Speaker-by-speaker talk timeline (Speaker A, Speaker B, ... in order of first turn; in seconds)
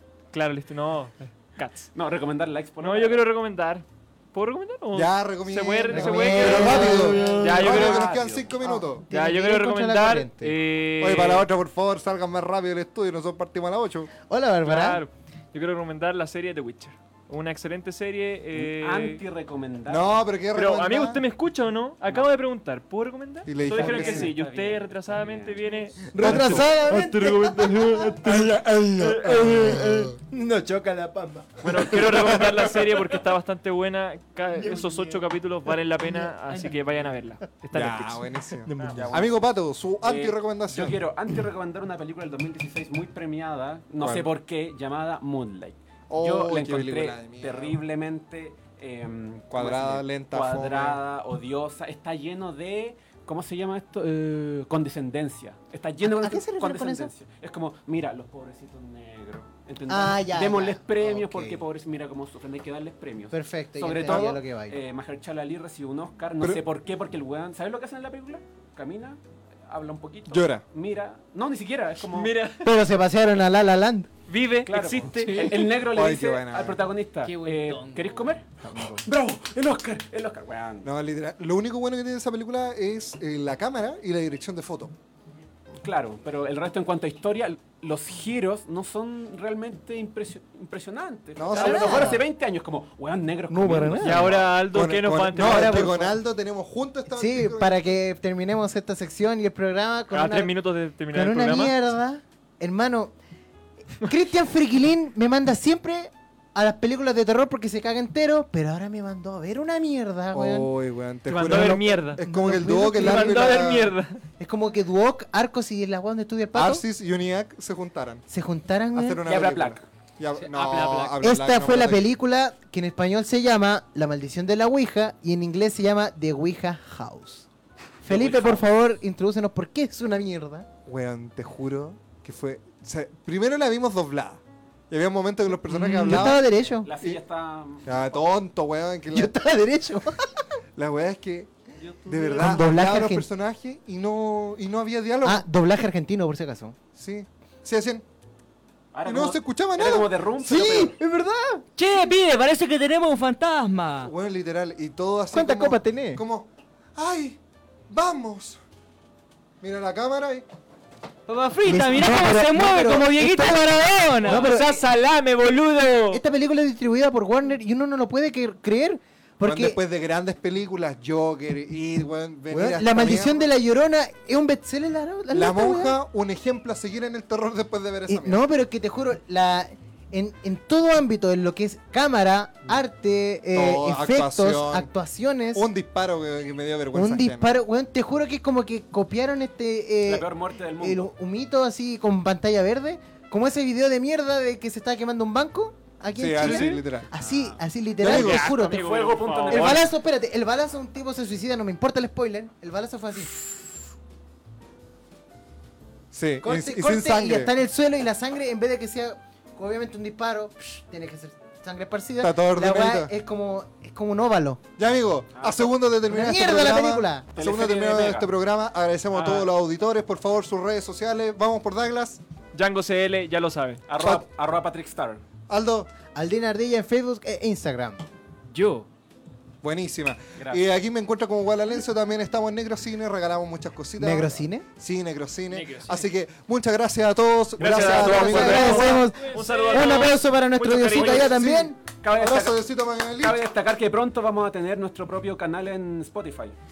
Speaker A: 0.3-1.9, 2.8-8.3, 9.1-11.5, 14.6-19.2, 20.6-30.1, 31.6-39.1, 72.1-72.7, 74.3-75.7, 94.0-96.0, 100.1-101.8, 111.3-112.2, 112.9-114.2, 135.9-136.2, 164.2-166.2, 196.4-196.8, 198.0-199.9, 222.5-223.8, 237.6-241.6
Speaker B: 1.9-3.2, 7.2-8.5, 18.7-20.2, 23.6-25.9, 38.9-39.4, 40.0-72.3, 74.7-78.4, 79.0-80.9, 85.8-94.4, 119.3-119.8, 128.1-128.7, 136.8-138.3, 148.9-150.9, 190.1-191.1, 197.2-197.6, 198.5-199.9, 215.3-215.7, 217.3-218.3, 219.1-219.5, 223.9-225.2, 230.4-230.7, 242.0-246.6
Speaker C: 4.9-9.0, 11.0-14.1, 19.9-21.2, 23.5-24.4, 26.2-26.8, 28.0-30.1, 32.1-32.7, 37.7-41.0, 44.0-44.3, 46.1-47.8, 49.5-51.0, 70.3-70.6, 75.7-76.8, 80.8-85.0, 91.4-92.2, 94.2-98.0, 110.3-114.0, 116.5-118.2, 118.9-122.1, 130.9-136.4, 137.8-139.3, 140.8-141.5, 142.1-145.5, 146.9-148.1, 149.1-150.1, 154.0-158.6, 159.6-160.4, 169.4-173.5, 175.3-178.4, 183.5-184.9, 185.5-187.5, 196.2-197.1, 198.0-198.5, 206.1-207.5, 212.2-213.1, 214.8-222.2, 224.0-224.2, 225.5-225.9, 229.6-238.8, 240.9-243.4
Speaker D: 5.9-7.6, 8.6-10.6, 14.3-15.0, 26.1-32.4, 34.5-35.2, 36.0-36.7, 38.6-39.2, 56.0-57.1, 59.9-61.6, 63.3-64.8, 72.6-74.1, 78.6-79.0, 91.5-92.2, 93.5-94.3, 95.3-96.2, 97.1-100.5, 101.1-103.1, 103.9-110.7, 111.3-113.6, 114.4-116.8, 118.3-119.2, 121.2-127.5, 128.0-130.7, 135.9-136.9, 139.1-140.3, 142.3-143.3, 145.2-146.8, 150.4-151.7, 155.3-156.2, 161.7-164.9, 166.1-169.8, 172.5-176.0, 178.1-185.7, 186.9-190.3, 190.8-198.9, 199.4-203.4, 206.4-214.6, 216.1-217.3, 226.2-228.1, 234.0-234.7, 237.6-241.8
Speaker E: 77.2-78.4, 120.4-121.3, 141.8-142.5, 151.8-154.1, 161.3-164.6, 228.5-228.9, 235.5-236.1, 238.3-240.0